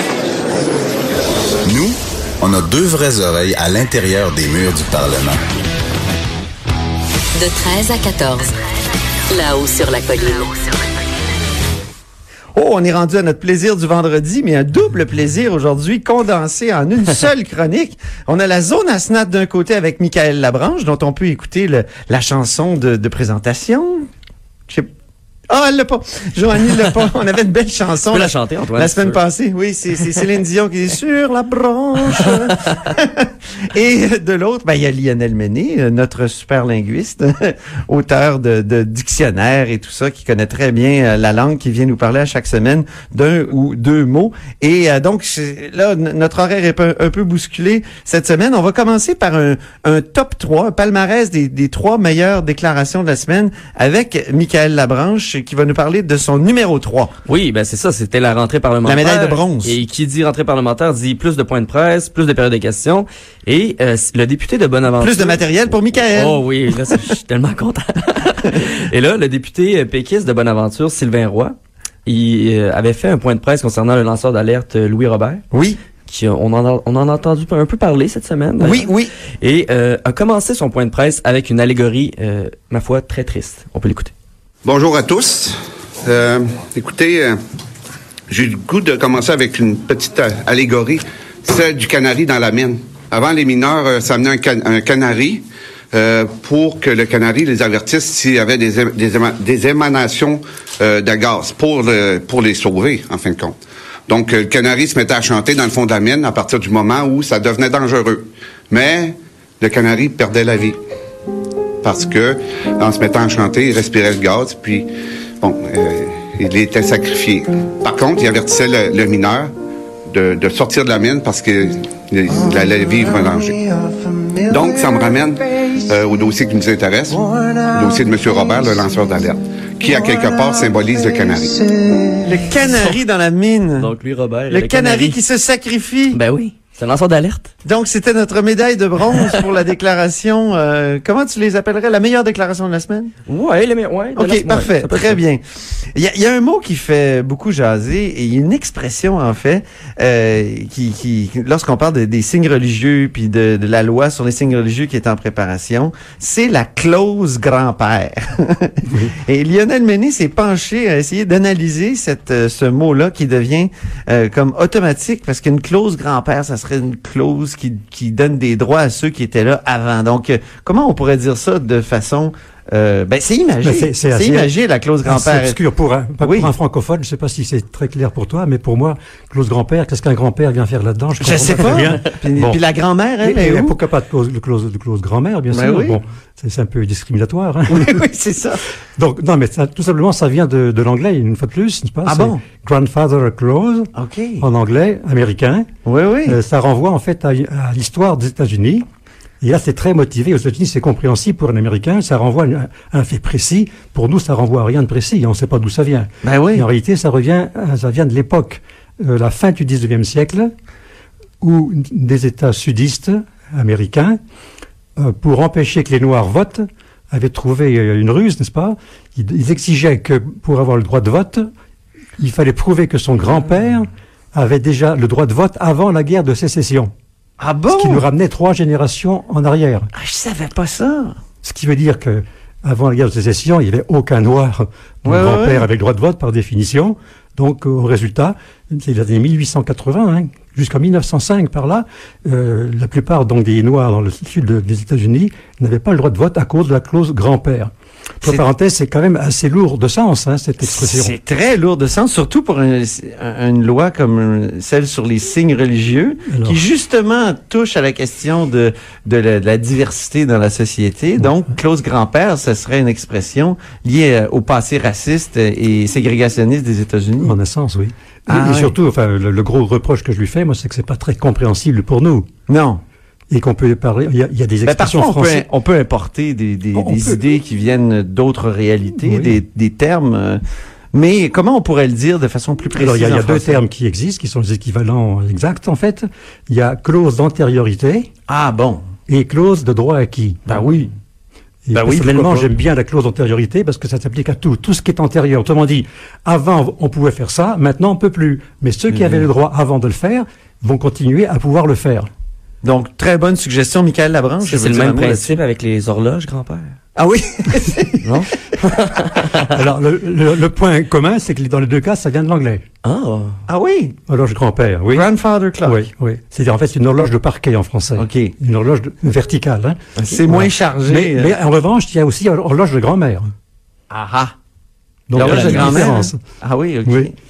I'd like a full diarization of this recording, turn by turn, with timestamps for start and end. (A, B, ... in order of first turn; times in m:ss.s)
0:01.6-0:05.4 A
0:07.4-0:08.5 B
0:09.3-0:10.8 B
0:12.5-0:24.1 C
0:25.5-0:57.1 C
0:28.1-0:29.2 D
0:57.2-1:15.4 D
0:58.8-0:59.8 C
1:05.0-1:07.0 C
1:15.5-1:15.8 C
1:16.0-1:18.9 D
1:18.6-1:19.1 C
1:19.4-1:24.1 D
1:24.6-1:27.4 E
1:28.3-1:43.6 E
1:44.1-1:50.8 E
1:51.8-1:54.9 E
1:55.4-1:59.5 E
2:00.1-2:03.6 E
2:04.5-2:11.6 E
2:12.2-2:13.9 C
2:13.8-2:15.2 D
2:14.5-2:16.2 C
2:16.1-2:17.5 D
2:17.6-2:23.1 C
2:23.3-2:25.2 D
2:24.2-2:25.4 C
2:25.9-2:55.6 C
2:38.9-2:39.1 F
2:53.6-2:54.5 F
2:55.0-3:02.6 F
2:56.2-2:56.5 C
3:01.2-3:03.7 C
3:03.2-3:08.0 F
3:05.5-3:06.0 C
3:07.7-3:08.6 C
3:09.0-3:13.9 F
3:12.0-3:12.4 C
3:13.9-3:14.4 C
3:14.4-3:15.7 F
3:15.8-3:16.4 C
3:16.2-3:18.8 F
3:19.4-3:30.5 F
3:26.2-3:26.7 C
3:31.4-3:34.2 F
3:35.0-3:41.5 F
3:42.2-3:46.9 F
3:47.4-3:48.0 C
3:47.7-3:49.9 F
3:49.9-3:51.2 C
3:51.4-4:07.7 F
3:55.0-3:55.7 C
4:08.2-4:11.1 F
4:10.6-4:27.4 C
4:16.3-4:16.6 F
4:27.2-4:32.3 F
4:28.3-4:28.8 C
4:32.5-4:32.8 C
4:33.3-4:35.4 F
4:34.6-4:40.4 C
4:36.7-4:37.2 F
4:39.0-4:39.4 F
4:40.9-4:43.6 C
4:42.7-4:48.1 F
4:48.3-4:48.8 C
4:49.1-4:50.4 F
4:50.5-4:50.9 C
4:51.6-5:02.1 F
4:51.7-4:52.5 C
4:58.9-4:59.2 C
5:02.6-5:05.3 C
5:04.4-5:06.7 D
5:07.0-5:08.0 C
5:08.0-5:09.4 D
5:09.5-5:12.6 F
5:12.8-5:13.3 D
5:13.5-5:14.0 C
5:14.1-5:15.1 F
5:14.9-5:15.8 C
5:15.6-5:19.8 F
5:18.0-5:18.3 C
5:20.0-5:20.2 D
5:20.1-5:21.3 C
5:20.3-5:23.2 F
5:23.9-5:24.3 C
5:25.1-5:26.2 F
5:25.1-5:27.1 C
5:25.2-5:25.9 D